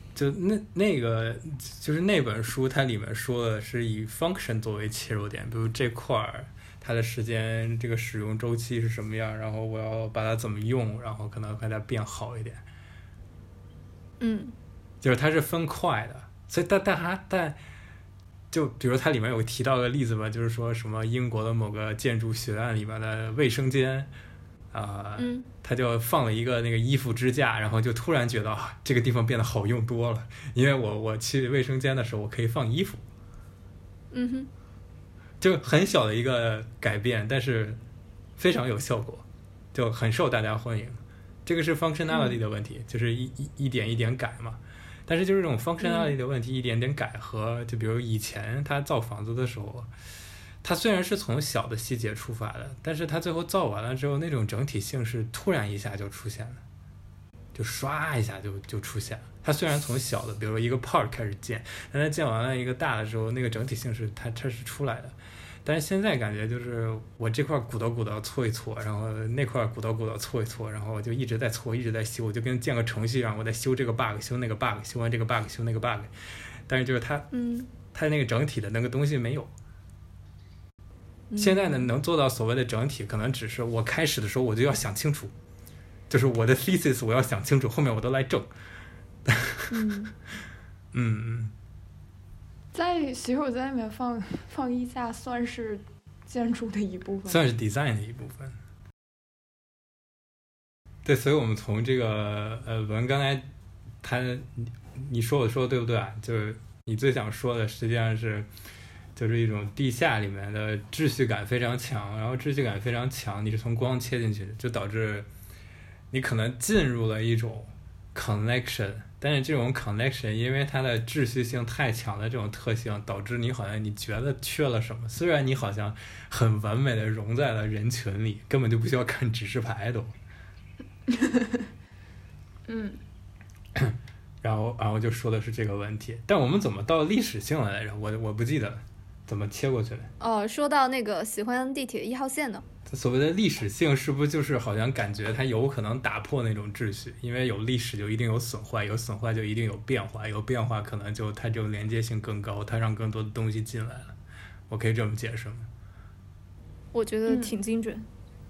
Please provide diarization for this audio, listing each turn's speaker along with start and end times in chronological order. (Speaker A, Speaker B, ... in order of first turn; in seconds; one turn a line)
Speaker A: 0.1-12.6
Speaker B: 14.2-14.6
Speaker A: 15.0-17.6
Speaker A: 18.5-24.1
Speaker A: 24.7-33.0
Speaker B: 25.2-25.5
Speaker B: 34.1-34.5
Speaker A: 35.4-37.8
Speaker A: 38.4-49.9
Speaker A: 50.6-56.6
Speaker A: 57.5-76.1
Speaker A: 76.7-79.5
Speaker B: 77.3-77.7
Speaker B: 81.3-81.9
Speaker A: 81.4-85.3
Speaker A: 86.1-88.5
Speaker A: 89.3-89.7
Speaker B: 89.7-90.1
Speaker A: 90.9-91.5
Speaker C: 92.7-97.5
Speaker A: 97.3-98.6
Speaker A: 101.0-103.5
Speaker A: 104.0-108.5
Speaker A: 109.2-115.3
Speaker A: 116.1-130.2
Speaker C: 131.1-131.7
Speaker C: 132.7-133.0
Speaker A: 133.8-140.1
Speaker B: 140.2-142.7
Speaker A: 142.9-154.2
Speaker A: 154.7-155.7
Speaker B: 156.9-158.1
Speaker C: 157.3-157.6